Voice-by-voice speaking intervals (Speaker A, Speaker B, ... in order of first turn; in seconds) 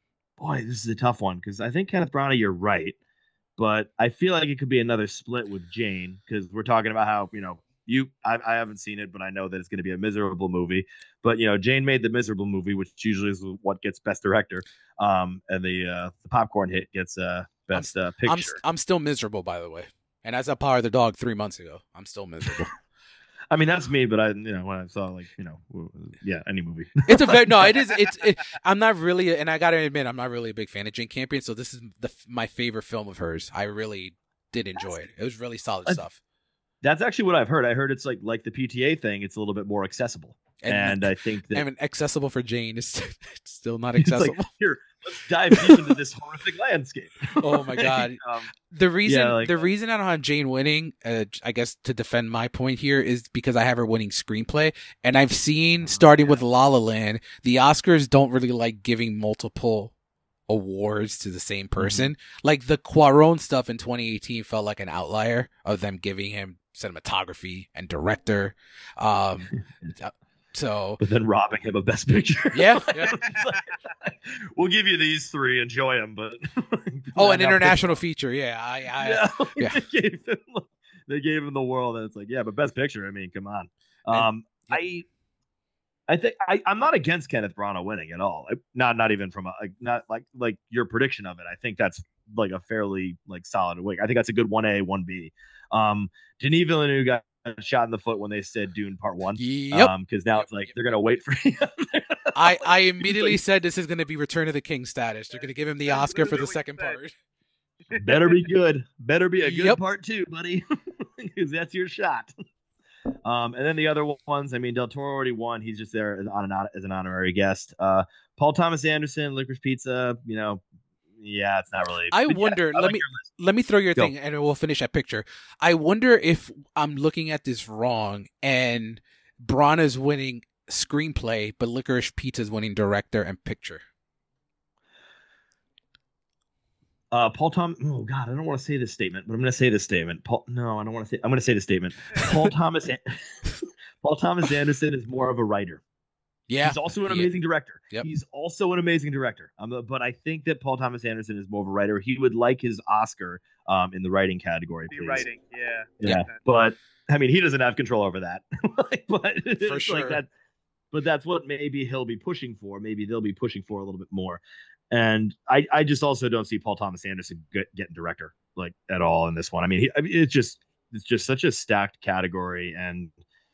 Speaker A: 0.4-3.0, 3.6-18.6, 23.5-27.7, 36.8-41.7, 44.0-48.5, 49.1-49.7, 55.9-56.4, 61.8-62.1, 71.0-77.9, 79.0-85.1, 86.1-103.4, 108.0-112.3, 113.2-120.6, 121.2-123.2, 137.1-145.8, 146.6-155.3, 156.0-160.3, 160.9-173.2
Speaker B: 17.8-22.7, 27.1-36.2, 40.6-44.5, 45.5-45.9, 47.4-59.9, 60.5-71.0, 72.5-73.2, 77.2-79.8, 84.1-84.8, 99.4-100.5, 102.3-107.1, 109.4-109.8, 122.1-133.8, 146.5-147.3, 159.6-160.2
Speaker C: 105.3-107.0, 107.9-108.5, 154.9-156.4